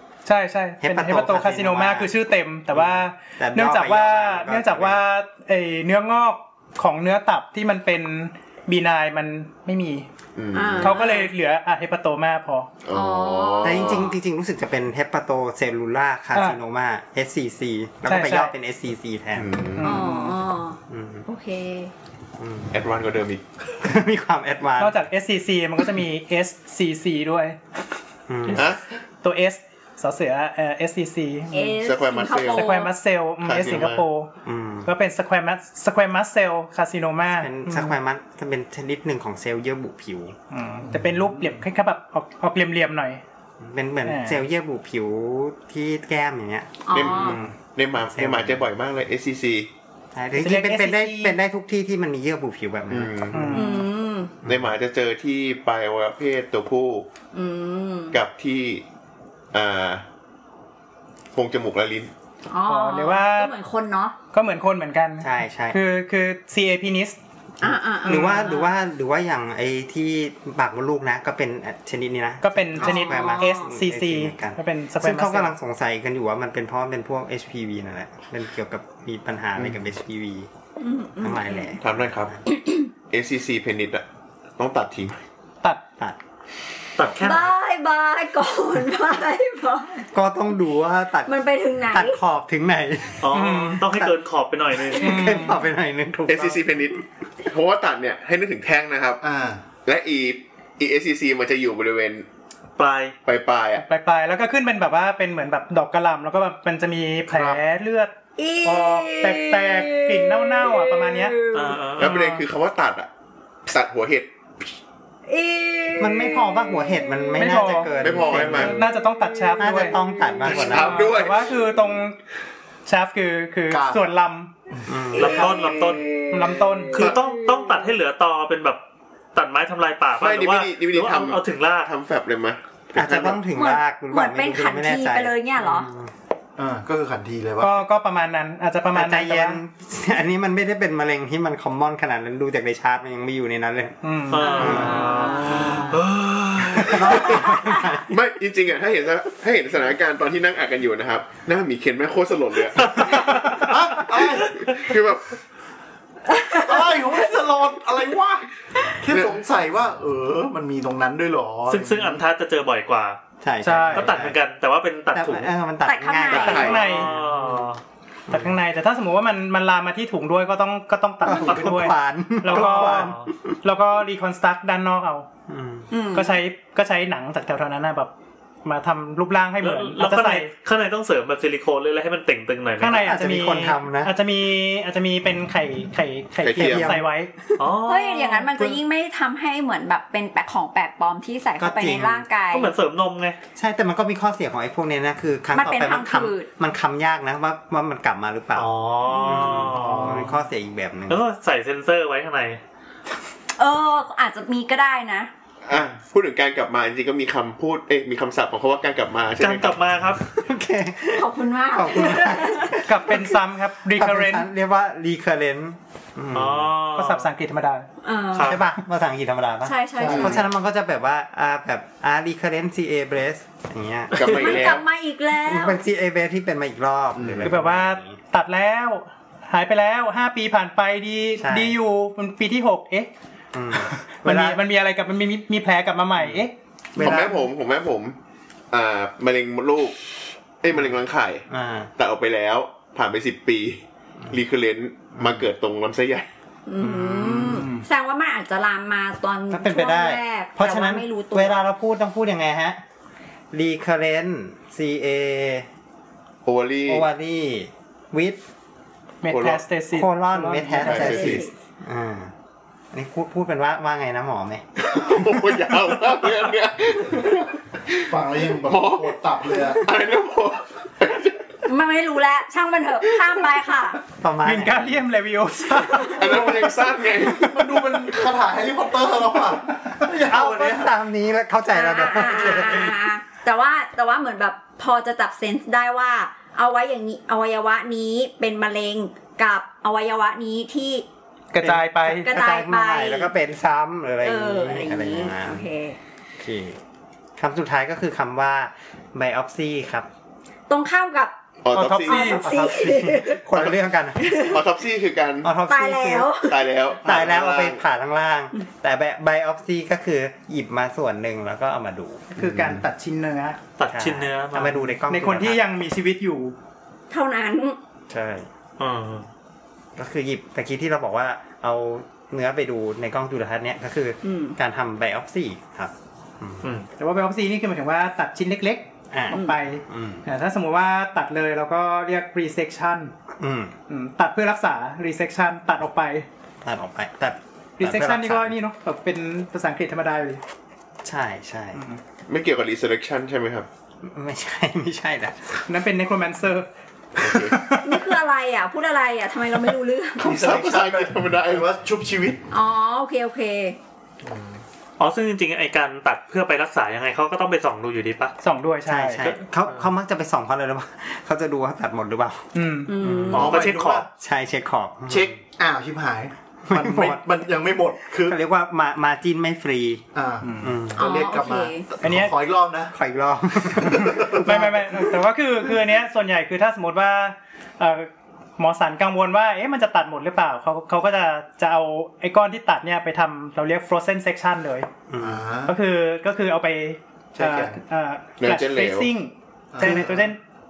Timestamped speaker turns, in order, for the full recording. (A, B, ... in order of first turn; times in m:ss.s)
0:00.2-0:10.1 A
0:00.8-0:02.1 B
0:02.7-0:05.0 B
0:10.4-0:11.0 C
0:10.5-0:11.3 D
0:10.8-0:12.7 A
0:12.8-0:14.2 C
0:12.9-0:14.1 D
0:13.6-0:19.6 B
0:18.0-0:18.5 A
0:19.4-0:19.9 C
0:19.8-0:20.4 A
0:19.8-0:21.9 D
0:20.9-0:21.2 B
0:22.4-0:22.8 B
0:22.7-0:23.4 C
0:23.8-0:25.0 B
0:24.8-0:27.6 A
0:28.3-0:28.7 B
0:28.5-0:28.8 C
0:29.2-0:31.8 A
0:31.5-0:32.9 D
0:31.8-0:32.7 C
0:32.4-0:34.3 A
0:33.4-0:34.0 C
0:34.4-0:34.9 B
0:34.8-0:38.0 A
0:37.3-0:40.3 B
0:40.5-0:43.2 A
0:43.6-0:47.5 B
0:44.0-0:44.4 A
0:46.8-0:47.4 D
0:46.9-0:49.7 C
0:48.1-0:48.6 B
0:50.1-0:53.7 B
0:50.4-0:51.4 A
0:52.9-0:53.7 C
0:53.3-0:53.9 A
0:53.5-0:54.3 D
0:54.4-0:57.1 C
0:54.4-0:54.7 B
0:57.3-0:58.2 D
0:58.1-0:58.8 C
0:59.5-1:00.0 C
1:01.3-1:02.1 C
1:02.5-1:04.1 D
1:02.6-1:03.5 A
1:04.3-1:07.2 A
1:05.2-1:05.8 B
1:07.6-1:08.7 D
1:07.6-1:20.5 B
1:12.4-1:15.5 A
1:12.8-1:13.7 D
1:20.8-1:21.8 D
1:21.2-1:22.4 B
1:21.8-1:22.4 C
1:23.1-1:24.0 C
1:24.6-1:25.2 C
1:27.0-1:27.5 E
1:27.2-1:30.1 D
1:30.1-1:33.3 B
1:31.2-1:32.2 D
1:33.2-1:35.4 E
1:33.3-1:33.8 A
1:34.7-1:36.9 B
1:35.0-1:35.6 A
1:36.3-1:39.2 C
1:39.2-1:39.6 F
1:39.8-1:42.2 C
1:42.8-1:43.1 E
1:43.2-1:43.8 C
1:43.8-1:51.4 A
1:47.3-1:47.6 F
1:48.4-1:51.8 D
1:51.5-1:52.4 E
1:52.0-1:53.1 C
1:53.7-1:54.7 C
1:55.3-1:57.5 D
1:56.0-1:58.8 B
1:57.4-2:00.0 A
1:58.0-1:58.8 C
1:59.6-2:01.1 B
2:00.4-2:01.6 C
2:00.5-2:02.2 A
2:02.8-2:04.5 A
2:03.7-2:04.0 F
2:04.9-2:05.5 B
2:05.2-2:06.1 E
2:05.3-2:06.3 D
2:06.3-2:07.1 A
2:06.9-2:08.8 E
2:09.3-2:11.9 E
2:10.2-2:13.4 C
2:12.9-2:16.1 B
2:13.5-2:15.9 D
2:16.6-2:17.8 F
2:17.6-2:19.6 A
2:18.9-2:25.2 B
2:24.0-2:25.6 A
2:24.3-2:27.3 E
2:24.7-2:25.5 D
2:25.4-2:26.0 F
2:26.8-2:28.1 B
2:27.4-2:33.4 C
2:32.8-2:34.4 E
2:33.0-2:34.8 F
2:34.6-2:35.3 C
2:36.3-2:36.7 D
2:36.5-2:42.2 F
2:39.1-2:39.3 C
2:41.7-2:43.2 E
2:43.4-2:44.4 B
2:43.6-2:44.2 A
2:43.9-2:45.5 E
2:45.1-2:47.6 B
2:45.8-2:46.8 D
2:46.3-2:47.1 A
2:46.3-2:47.3 C
2:46.7-2:47.8 E
2:48.3-2:55.3 A
2:51.2-2:53.6 B
2:52.4-2:53.3 E
2:55.5-2:55.9 B
2:55.9-2:56.3 D
2:56.1-2:58.1 A
2:58.6-3:00.5 A
2:59.6-3:03.1 E
3:02.8-3:07.3 A
3:02.8-3:04.1 B
3:06.4-3:07.0 C
3:06.5-3:07.0 B
3:07.6-3:08.6 E
3:07.8-3:12.7 D
3:11.6-3:12.2 B
3:12.5-3:13.4 E
3:13.6-3:21.2 B
3:15.5-3:16.5 D
3:18.5-3:20.3 E
3:19.1-3:19.6 D
3:19.9-3:20.2 F
3:21.1-3:22.6 E
3:23.6-3:25.3 D
3:25.7-3:29.9 C
3:29.4-3:30.2 E
3:30.4-3:33.4 B
3:31.1-3:32.8 D
3:32.8-3:34.5 A
3:33.9-3:36.7 B
3:36.3-3:37.3 E
3:36.9-3:37.9 A
3:38.0-3:38.6 D
3:38.3-3:38.6 E
3:38.4-3:44.7 B
3:39.6-3:40.4 D
3:40.0-3:40.4 F
3:44.1-3:44.8 C
3:44.2-3:45.8 D
3:45.4-3:48.2 B
3:47.2-3:47.6 C
3:47.4-3:53.1 A
3:51.4-3:51.8 B
3:53.5-3:54.6 B
3:54.2-3:56.5 A
3:56.9-3:58.2 C
3:57.0-3:57.5 B
3:58.7-4:00.0 C
4:00.6-4:01.4 C
4:01.5-4:01.9 B
4:02.0-4:06.3 C
4:05.1-4:05.5 B
4:06.7-4:11.6 D
4:06.8-4:07.7 B
4:07.5-4:07.8 A
4:09.5-4:12.8 B
4:13.5-4:15.7 B
4:16.4-4:17.1 C
4:16.9-4:18.4 B
4:19.2-4:21.2 A
4:19.3-4:19.6 C
4:19.9-4:22.3 B
4:20.8-4:21.4 C
4:20.9-4:21.5 D
4:22.9-4:24.6 B
4:24.8-4:27.6 C
4:28.0-4:29.8 F
4:28.6-4:31.4 C
4:31.6-4:34.0 D
4:34.2-4:35.0 B
4:34.4-4:36.7 A
4:35.7-4:36.3 D
4:36.1-4:38.1 C
4:37.2-4:40.9 F
4:40.2-4:43.0 B
4:41.7-4:51.0 D
4:51.5-4:52.3 A
4:51.6-4:55.6 B
4:52.2-4:53.3 D
4:54.2-4:56.0 D
4:56.4-4:56.8 B
4:57.4-5:00.1 B
5:00.7-5:01.3 D
5:01.6-5:02.4 C
5:01.7-5:02.4 A
5:02.0-5:03.4 D
5:02.3-5:04.4 B
5:04.2-5:04.6 D
5:04.4-5:05.6 C
5:05.4-5:06.3 B
5:05.6-5:06.7 D
5:06.4-5:07.8 C
5:07.0-5:12.8 B
5:12.3-5:13.6 A
5:13.8-5:14.8 E
5:13.9-5:15.6 B
5:15.1-5:16.6 A
5:17.1-5:17.8 D
5:18.1-5:18.5 B
5:18.8-5:19.2 E
5:20.0-5:26.7 B
5:24.2-5:24.6 D
5:27.0-5:33.1 A
5:29.1-5:30.2 B
5:29.3-5:29.6 D
5:33.4-5:33.7 B
5:33.9-5:36.2 A
5:36.6-5:38.5 B
5:37.8-5:40.4 A
5:41.0-5:41.8 B
5:41.7-5:42.0 A
5:42.3-5:43.7 C
5:44.0-5:45.4 B
5:45.6-5:48.0 A
5:47.2-5:47.7 C
5:47.8-5:50.4 D
5:50.2-5:52.4 F
5:50.3-5:51.7 C
5:52.5-5:53.8 D
5:54.2-5:54.6 F
5:55.0-5:58.3 E
5:58.4-5:59.4 A
5:58.8-6:05.3 B
6:02.5-6:02.9 A
6:02.8-6:03.6 D
6:03.3-6:04.0 F
6:03.3-6:04.1 E
6:05.1-6:08.4 F
6:06.7-6:07.2 B
6:08.3-6:10.0 B
6:10.1-6:12.9 F
6:10.4-6:10.8 A
6:10.6-6:11.0 B
6:11.0-6:11.9 D
6:12.0-6:12.3 A
6:12.9-6:15.0 B
6:13.9-6:14.3 F
6:14.4-6:24.9 A
6:25.1-6:25.4 B
6:25.2-6:25.8 F
6:25.6-6:30.4 A
6:27.3-6:27.8 F
6:28.4-6:29.1 C
6:29.7-6:30.1 F
6:29.8-6:30.3 B